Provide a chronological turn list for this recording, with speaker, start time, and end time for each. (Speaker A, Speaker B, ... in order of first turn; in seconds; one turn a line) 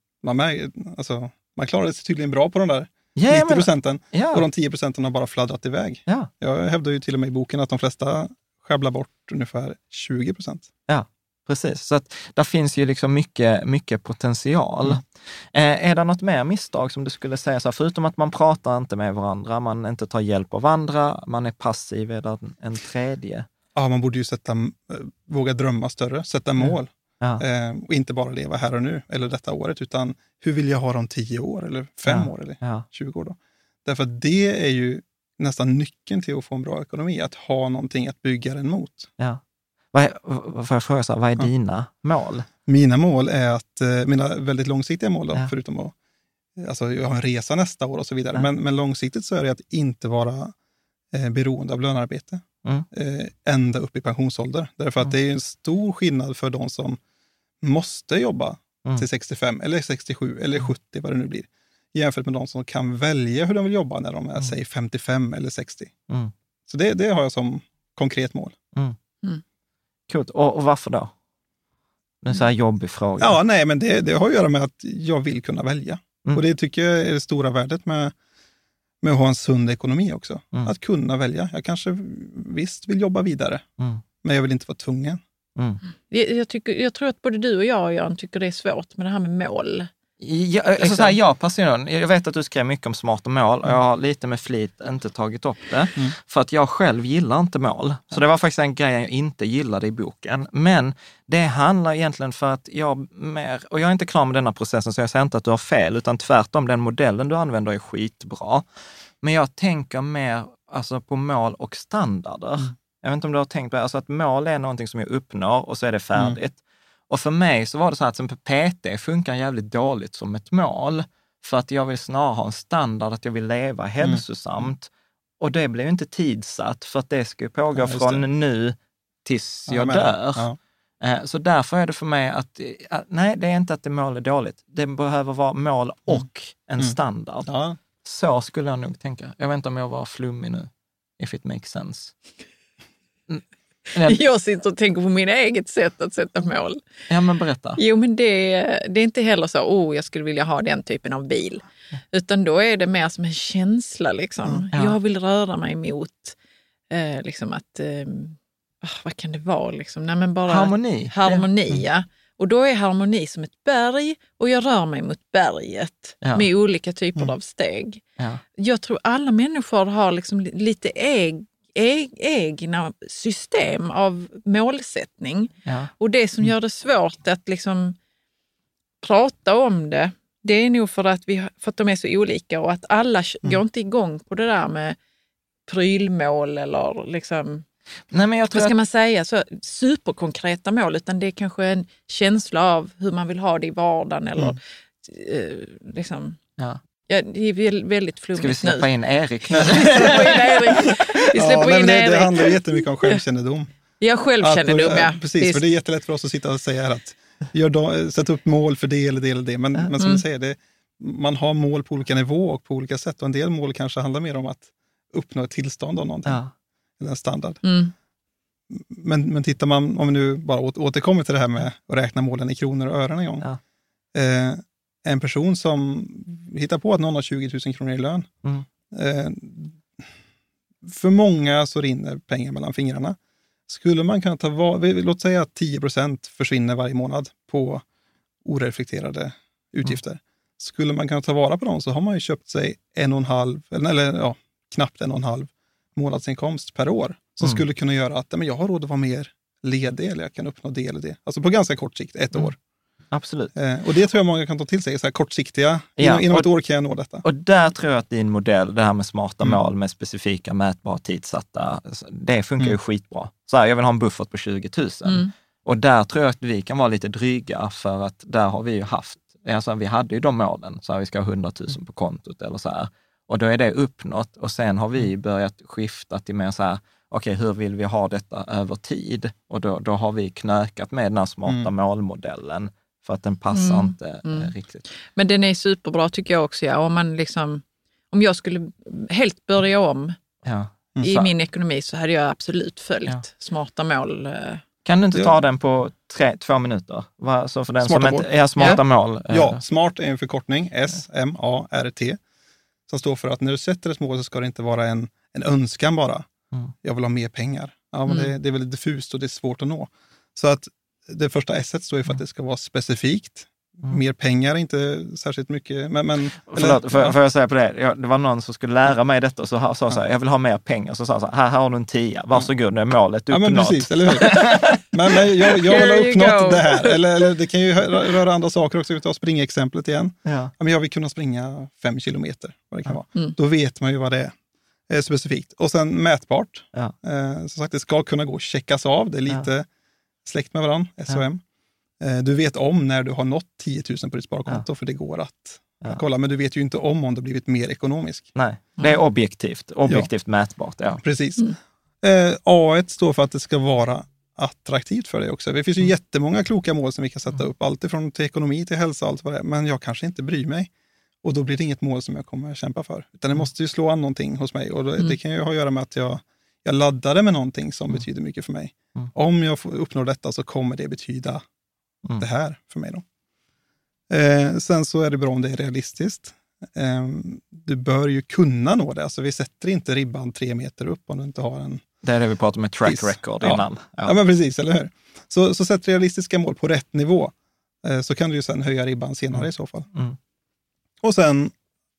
Speaker A: 0.2-10.7
Speaker B: 3.1-4.5
Speaker B: 10.9-23.5
Speaker A: 23.7-39.1
Speaker B: 26.6-27.4
Speaker B: 32.0-32.9
Speaker B: 39.9-42.5
Speaker A: 42.6-45.9
Speaker A: 46.6-50.5
Speaker A: 51.1-57.0
Speaker A: 57.6-65.9
Speaker A: 66.7-68.5
Speaker B: 70.1-71.1
Speaker B: 72.2-73.4
Speaker A: 73.2-78.1
Speaker A: 79.0-83.7
Speaker A: 84.2-85.2
Speaker B: 85.5-85.8
Speaker C: 86.1-89.9
Speaker B: 90.2-108.6
Speaker C: 90.8-91.1
Speaker B: 109.2-116.6
Speaker B: 117.1-124.9
Speaker A: 124.0-124.7
Speaker B: 125.4-130.5
Speaker A: 127.8-128.2
Speaker A: 129.7-130.6
Speaker B: 131.0-137.5
Speaker A: 136.8-137.8
Speaker B: 138.0-142.1
Speaker B: 143.9-144.2
Speaker C: 144.1-146.8
Speaker B: 147.1-147.8
Speaker C: 147.8-156.3
Speaker C: 156.9-168.0
Speaker B: 160.5-161.5
Speaker C: 168.6-177.9
Speaker B: 175.6-175.9
Speaker C: 179.0-185.0
Speaker C: 185.7-187.6
Speaker B: 188.1-188.7
Speaker C: 188.5-196.4
Speaker C: 197.1-198.9
Speaker B: 198.3-201.0
Speaker C: 199.5-203.2
Speaker A: 201.3-203.7
Speaker C: 204.0-205.6
Speaker A: 204.4-216.4
Speaker C: 210.0-210.2
Speaker B: 216.2-216.5
Speaker A: 217.0-217.6
Speaker C: 217.6-217.9
Speaker A: 218.7-223.5
Speaker A: 224.1-228.3
Speaker A: 228.9-230.0
Speaker A: 230.8-233.2
Speaker A: 233.7-237.8
Speaker A: 238.4-252.6
Speaker B: 253.1-253.5
Speaker A: 253.5-257.2
Speaker B: 256.0-256.5
Speaker B: 257.2-284.8
Speaker C: 283.5-290.1
Speaker B: 290.4-291.3
Speaker C: 291.0-294.6
Speaker B: 294.8-299.6
Speaker A: 297.8-302.2
Speaker A: 302.9-306.3
Speaker A: 306.8-317.1
Speaker C: 308.1-308.3
Speaker B: 316.5-324.7
Speaker A: 323.3-334.3
Speaker C: 324.3-324.7
Speaker C: 325.5-327.0
Speaker B: 330.2-330.5
Speaker A: 334.9-339.7
Speaker A: 340.2-341.4
Speaker A: 342.0-348.3
Speaker B: 348.3-351.0
Speaker A: 351.0-351.5
Speaker A: 352.0-360.7
Speaker A: 361.2-371.4
Speaker A: 372.2-373.0
Speaker A: 374.1-381.8
Speaker B: 382.0-384.2
Speaker A: 382.8-389.9
Speaker B: 389.3-390.2
Speaker A: 391.0-391.5